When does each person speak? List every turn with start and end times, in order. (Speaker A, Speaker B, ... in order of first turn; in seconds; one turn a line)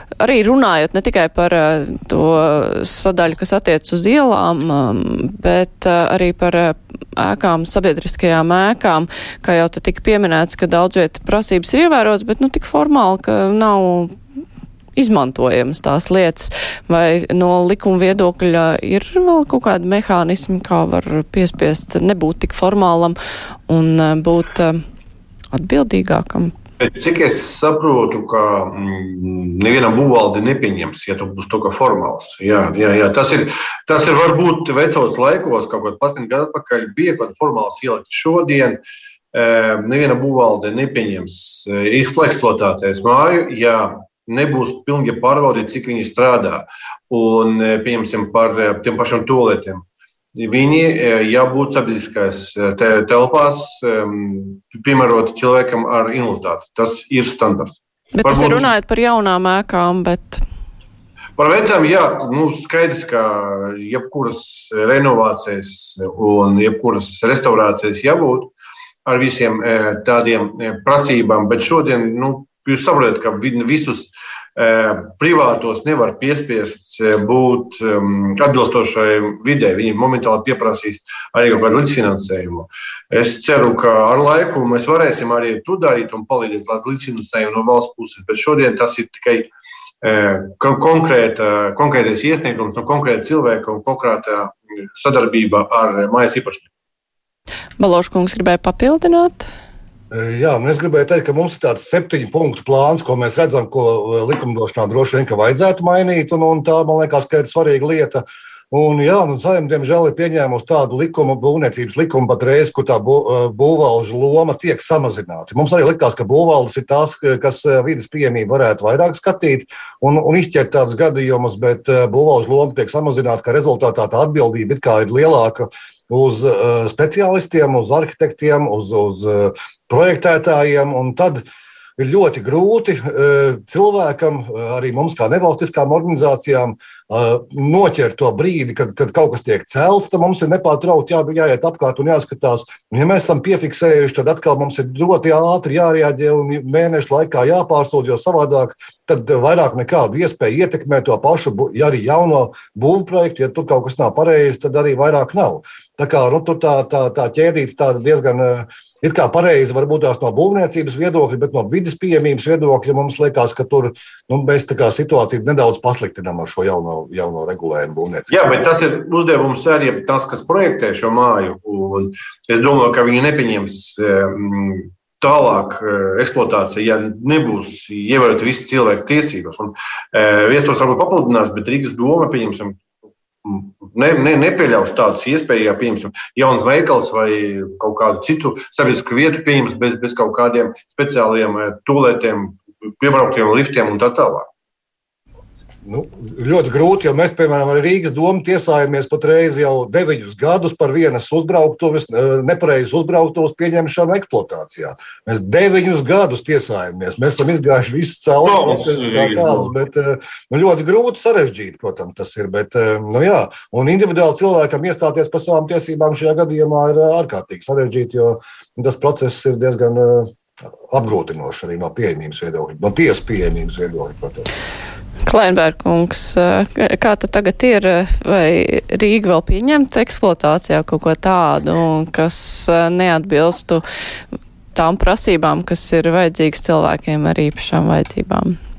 Speaker A: 0.2-14.1
Speaker A: 14.9-23.1
Speaker A: 23.7-24.8
Speaker A: 25.5-26.5
Speaker B: 26.8-38.8
Speaker B: 39.3-49.8
Speaker B: 50.3-58.7
Speaker A: 58.1-60.4
Speaker B: 61.4-68.5
Speaker B: 69.0-89.5
Speaker B: 90.0-96.7
Speaker A: 97.8-99.5
Speaker C: 100.1-131.4
Speaker C: 132.0-168.3
Speaker B: 168.3-182.8
Speaker B: 183.4-194.5
Speaker C: 195.8-220.3
Speaker B: 208.4-209.7
Speaker C: 220.9-224.5
Speaker A: 225.2-233.8
Speaker A: 234.7-238.6